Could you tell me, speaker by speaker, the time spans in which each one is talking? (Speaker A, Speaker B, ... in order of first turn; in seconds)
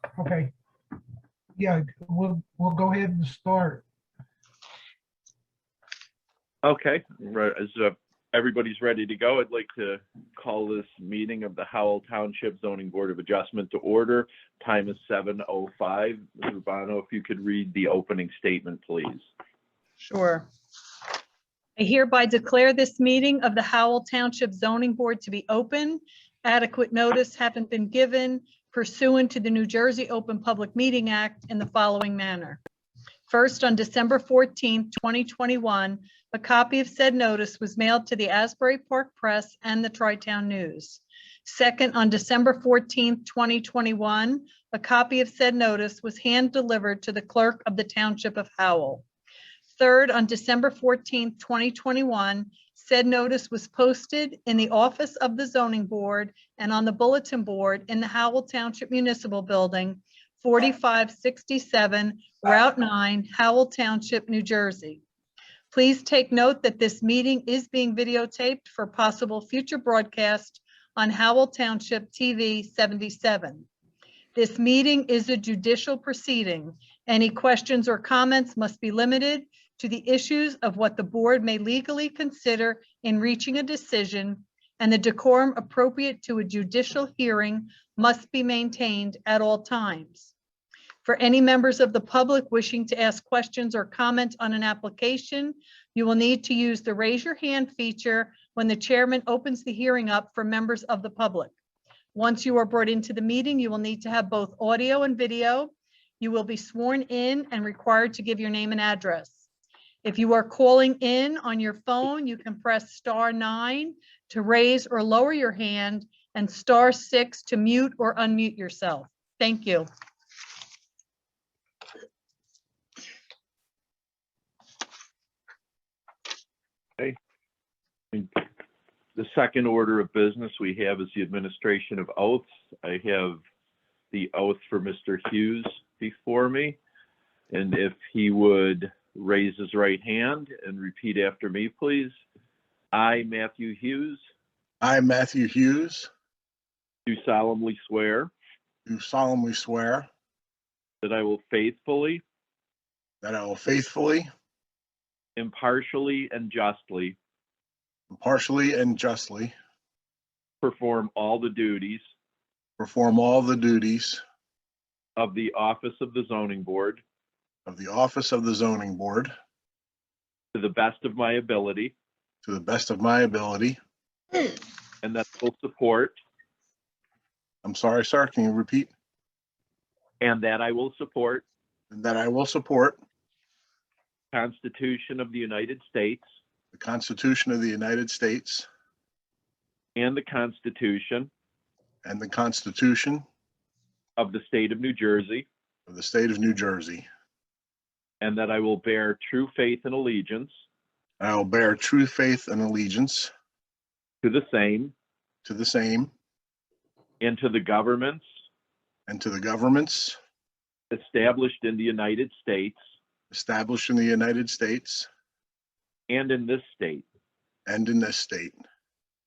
Speaker A: 0.1-0.5, 1.6-3.8
Speaker B: 6.6-19.2, 129.2-133.4, 134.1-136.8, 137.5-142.1, 142.9-144.2, 147.1-148.3, 151.0-152.2, 155.4-157.2, 160.6-162.0, 165.2-167.0, 170.5-171.9, 175.0-176.2, 180.2-181.4, 184.3-186.2, 189.9-191.3, 194.2-195.4, 198.2-200.6, 204.2-204.9, 207.2-208.2, 210.9-212.8, 216.1-217.0
Speaker C: 20.0-20.5, 21.8-32.6, 33.3-49.0, 49.7-65.0, 65.7-73.7, 74.3-90.3, 91.0-101.5, 102.1-109.5, 110.0-119.9
Speaker D: 144.8-146.1, 148.8-150.1, 153.2-154.3, 158.1-159.5, 162.8-164.2, 167.7-169.3, 172.4-173.8, 177.6-178.9, 181.9-183.0, 186.7-188.7, 192.0-193.2, 195.9-197.1, 201.2-203.3, 205.4-206.1, 209.1-210.2, 213.3-215.1, 217.7-218.6